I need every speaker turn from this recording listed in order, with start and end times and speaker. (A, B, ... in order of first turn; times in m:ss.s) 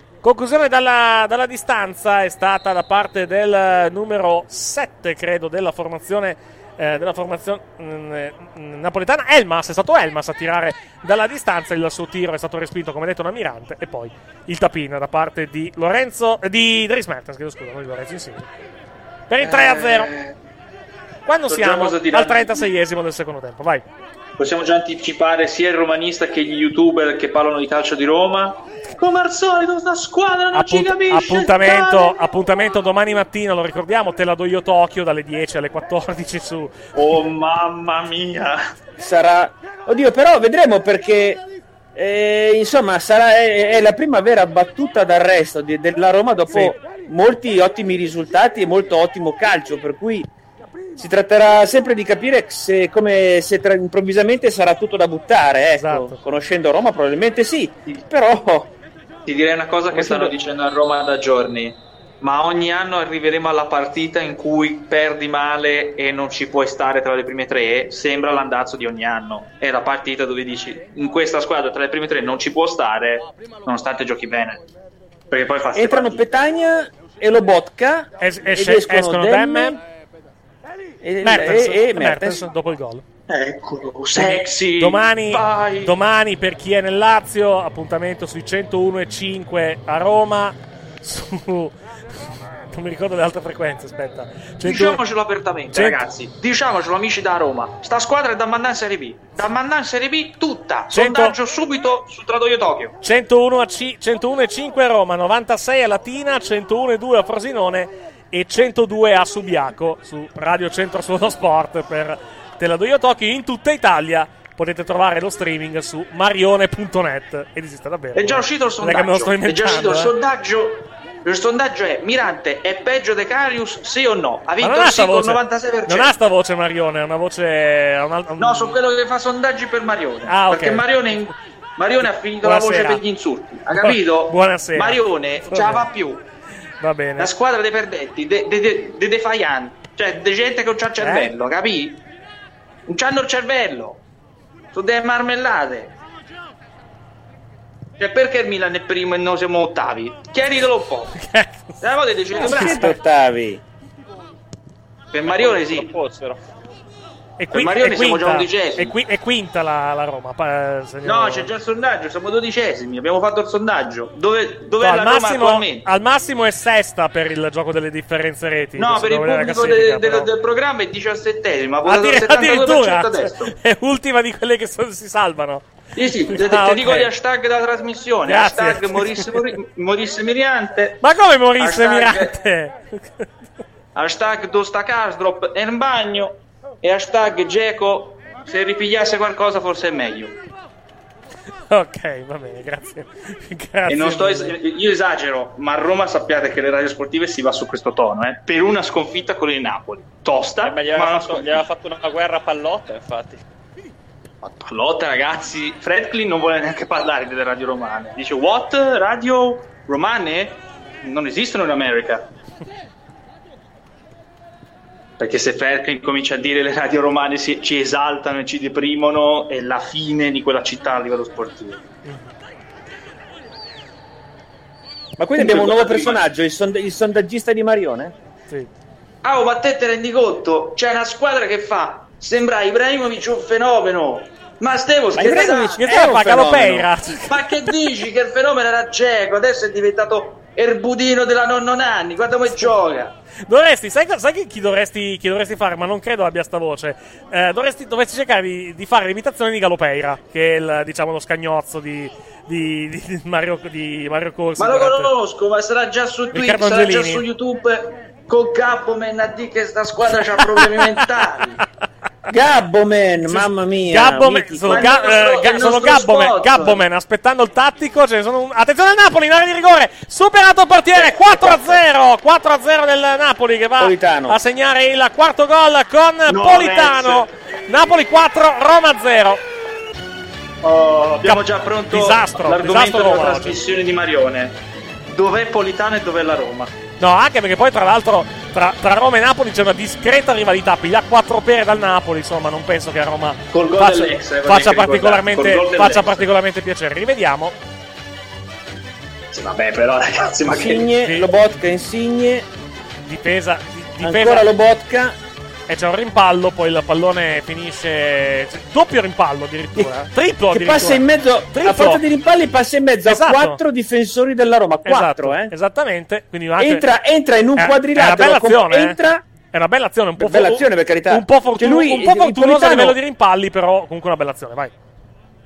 0:00.2-0:18.5 A
0:19.3-0:20.1 A
0:19.4-0:20.4 B
0:21.2-0:23.8 A
0:21.5-0:22.7 B
0:24.4-0:32.2 B
0:30.5-0:36.8 A
0:36.9-0:38.7 B
0:39.0-0:41.4 C
0:41.9-0:50.3 C
0:51.0-0:58.7 C
0:55.8-0:56.2 A
0:59.2-1:14.6 B
0:59.9-1:00.3 C
1:15.3-1:16.3 B
1:15.7-1:19.8 C
1:18.2-1:19.8 A
1:21.0-1:22.5 C
1:21.2-1:23.0 A
1:23.3-1:25.9 B
1:24.1-1:35.0 A
1:34.6-1:43.0 B
1:35.7-1:36.0 A
1:40.9-1:41.4 A
1:43.0-2:00.1 A
1:58.1-2:06.1 B
2:04.6-2:08.8 A
2:08.4-2:16.2 B
2:10.3-2:11.0 A
2:12.0-2:13.0 A
2:13.8-2:15.9 A
2:16.8-2:17.3 A
2:17.2-2:22.0 B
2:21.0-2:21.3 A
2:22.9-2:24.0 B
2:24.7-2:25.9 B
2:28.0-2:31.1 B
2:31.1-2:31.8 A
2:31.8-2:32.9 B
2:32.3-2:33.0 A
2:32.3-2:33.6 C
2:35.1-2:35.9 B
2:35.2-2:36.4 D
2:37.4-2:41.5 A
2:37.5-2:38.9 B
2:41.0-2:45.8 B
2:44.8-2:50.3 A
2:48.8-2:53.5 B
2:51.8-2:55.7 A
2:55.9-3:01.0 B
2:56.3-2:57.1 A
2:58.2-2:59.5 A
3:01.0-3:03.3 A
3:01.6-3:02.3 B
3:03.9-3:10.4 B
3:11.7-3:14.6 A
3:13.9-3:21.6 B
3:20.6-3:23.4 D
3:24.4-3:32.3 B
3:35.2-3:41.8 B
3:42.0-3:42.3 A
3:45.2-3:48.2 C
3:45.4-3:46.2 B
3:49.2-3:55.8 B
3:55.1-3:56.9 C
3:55.6-3:57.3 A
3:57.3-4:03.1 B
4:03.5-4:15.1 A
4:14.6-4:21.6 B
4:16.3-4:17.2 A
4:20.4-4:21.0 A
4:22.3-4:25.1 C
4:23.2-4:39.4 A
4:24.7-4:26.8 B
4:31.0-4:31.8 C
4:33.8-4:34.4 C
4:36.3-4:37.3 B
4:40.6-4:46.7 B
4:41.2-4:43.6 A
4:47.0-4:57.6 A
4:53.5-4:56.3 B
4:59.3-5:00.9 B
5:00.4-5:02.5 C
5:01.0-5:01.3 A
5:03.0-5:04.5 A
5:04.0-5:05.2 C
5:05.7-5:12.0 A
5:10.5-5:15.5 C
5:13.0-5:13.6 A
5:14.8-5:16.9 A
5:16.6-5:19.2 C
5:17.6-5:19.0 A
5:19.5-5:24.7 A
5:20.2-5:23.0 C